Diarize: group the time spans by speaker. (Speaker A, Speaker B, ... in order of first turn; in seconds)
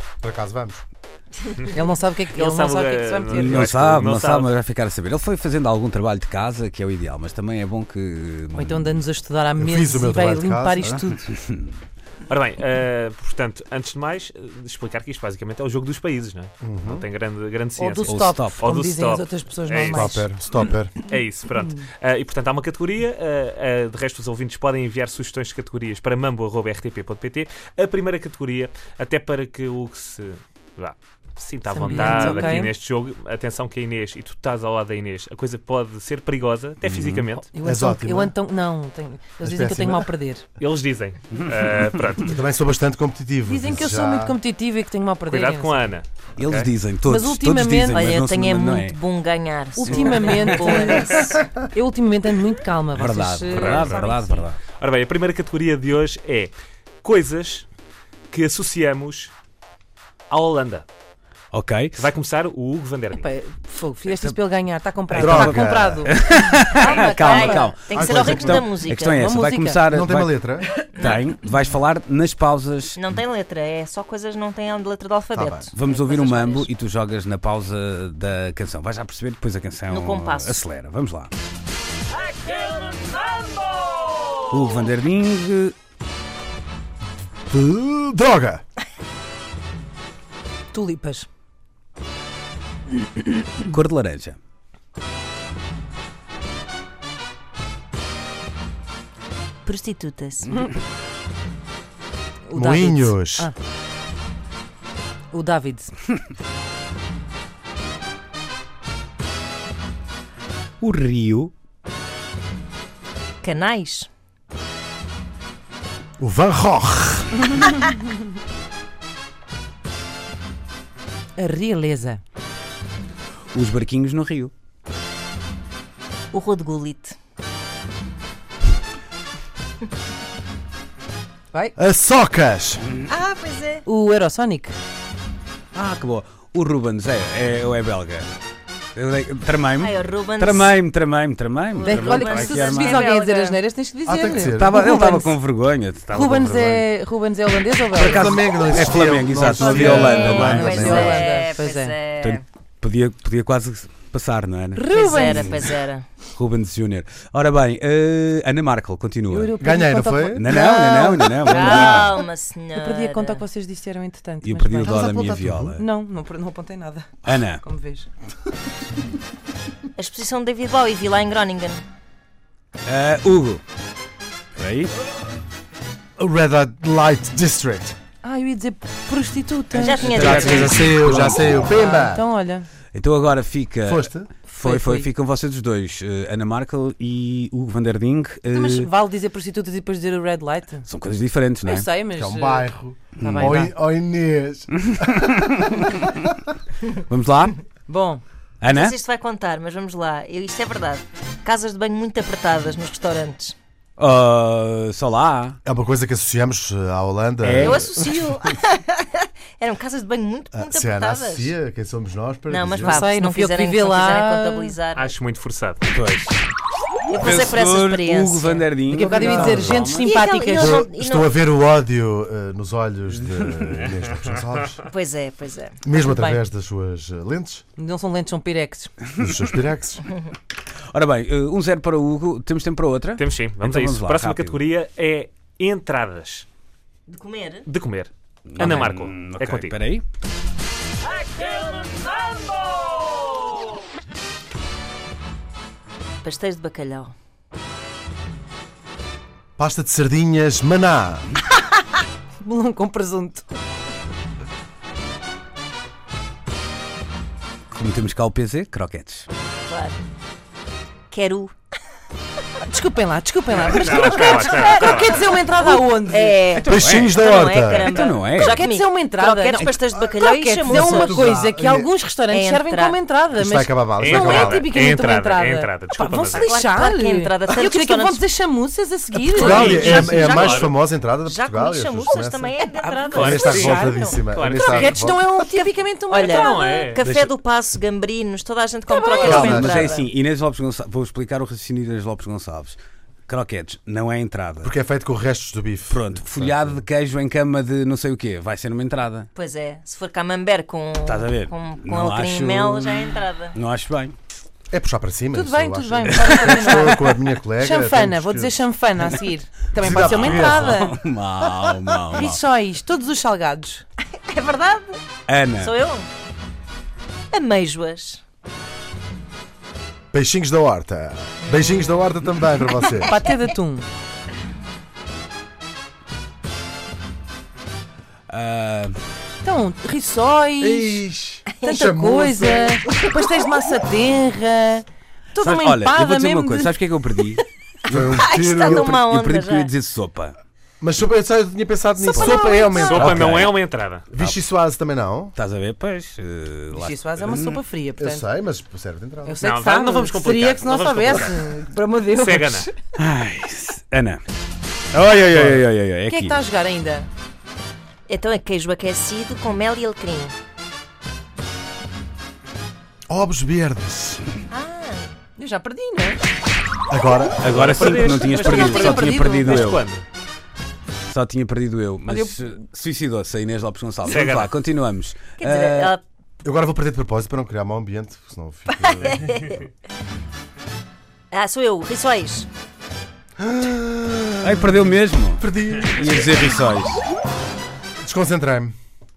Speaker A: 0.2-0.8, 9.6-11.0, 16.6-17.0, 19.9-20.9, 36.8-38.3, 39.4-40.1, 42.2-44.4, 65.1-66.1, 67.9-68.7, 69.9-70.7, 75.3-75.7, 87.5-88.6, 102.5-103.5, 116.2-117.6, 131.8-132.8, 144.1-144.8, 148.0-151.2, 159.6-160.6, 164.9-165.8, 176.2-177.9, 180.2-182.2, 183.8-184.3, 192.2-196.1, 205.6-208.5, 210.5-213.0, 219.2-220.0, 220.5-224.8, 225.8-227.6, 229.2-230.0, 249.6-251.2, 266.6-267.9, 270.7-271.9, 273.3-274.6, 279.3-282.5, 283.1-285.4, 289.2-289.9, 294.6-296.8, 304.7-308.6, 309.8-310.7, 320.1-323.1, 330.6-333.1, 337.9-338.9, 340.8-343.5, 344.1-345.3, 348.0-349.4, 355.3-355.6, 363.1-364.2, 366.9-367.4, 376.4-379.3, 383.4-384.8, 385.4-386.4, 388.0-388.7
Speaker B: 1.7-3.6, 8.5-11.3, 17.8-20.3, 31.7-32.7, 37.5-40.4, 43.4-45.9, 47.0-48.1, 49.7-54.5, 63.1-67.8, 69.2-69.8, 90.7-91.3, 102.5-103.5, 105.3-105.9, 121.4-122.2, 133.8-134.7, 141.8-145.3, 146.1-148.3, 149.6-151.9, 154.7-155.7, 159.3-162.2, 162.7-165.0, 165.8-168.1, 178.2-180.7, 181.7-182.7, 184.5-185.1, 188.5-190.9, 191.6-193.7, 197.9-198.2, 212.8-214.8, 218.9-220.8, 225.9-226.4, 227.8-228.9, 252.4-253.4, 262.6-266.4, 268.4-280.1, 282.6-286.9, 288.9-289.4, 305.3-310.9, 312.1-313.8, 323.0-323.9, 329.4-331.0, 331.6-337.2, 342.0-343.1, 346.7-348.2, 349.2-352.7, 356.1-357.1, 365.4-366.2, 368.3-369.8, 372.1-372.4
Speaker C: 2.3-4.5, 12.3-20.1, 21.0-37.5, 40.6-42.4, 45.3-46.7, 53.5-54.1, 54.8-57.6, 58.3-59.3, 60.3-60.8, 61.9-63.3, 214.9-215.8, 233.2-236.4, 237.7-239.8, 263.6-265.4, 274.0-276.5, 279.4-280.7, 283.1-285.0, 286.3-287.0, 342.7-344.1, 349.4-351.3, 352.1-352.7, 367.4-370.0, 374.0-374.5
Speaker D: 3.3-9.0, 18.1-18.6, 46.4-49.0, 53.0-54.6, 61.5-62.0, 65.1-70.4, 71.0-73.0, 75.7-81.3, 84.5-85.7, 93.6-94.4, 110.8-111.5, 123.5-124.5, 135.7-138.3, 138.9-143.0, 144.5-146.9, 148.0-151.2, 152.2-154.9, 156.3-159.6, 160.3-162.2, 164.4-165.8, 167.2-167.6, 172.8-173.6, 174.6-174.9, 180.0-181.7, 182.9-188.9, 190.9-191.9, 193.2-193.6, 195.1-196.1, 197.1-197.6, 198.6-198.9, 204.0-205.6, 207.4-207.9, 215.9-216.4, 217.1-220.0, 230.9-234.6, 238.5-240.0, 257.7-259.3, 266.6-267.2, 267.7-268.6, 287.0-287.3, 289.2-292.8, 293.3-294.7, 295.9-299.3, 301.0-304.1, 306.5-306.8, 310.0-312.4, 315.3-315.7, 328.3-329.0, 335.4-340.3, 343.0-343.6, 345.4-347.6, 353.0-354.2, 354.9-356.4, 367.4-369.8, 371.1-375.9, 384.4-387.0
Speaker E: 47.9-51.3, 67.2-69.3, 70.9-71.3, 73.0-76.7, 79.9-80.7, 99.6-100.7, 113.4-114.1, 126.3-127.1, 133.1-133.8, 139.8-140.8, 141.7-143.6, 149.6-152.4, 154.9-156.1, 161.4-163.4, 169.9-171.8, 179.7-180.8, 198.7-203.6, 207.6-211.5, 212.5-215.1, 217.1-218.7, 220.0-221.3, 224.8-225.8, 230.1-230.3, 237.1-237.7, 246.2-247.1, 259.7-260.0, 261.1-261.5, 264.0-271.5, 272.3-273.0, 276.4-278.2, 279.3-280.7, 281.2-284.2, 285.5-290.1, 299.3-303.6, 314.2-315.0, 315.5-316.1, 317.3-318.2, 321.4-322.0, 322.8-323.3, 337.9-339.7, 358.1-360.3, 364.5-365.1, 375.4-376.0, 378.7-379.6, 381.3-382.5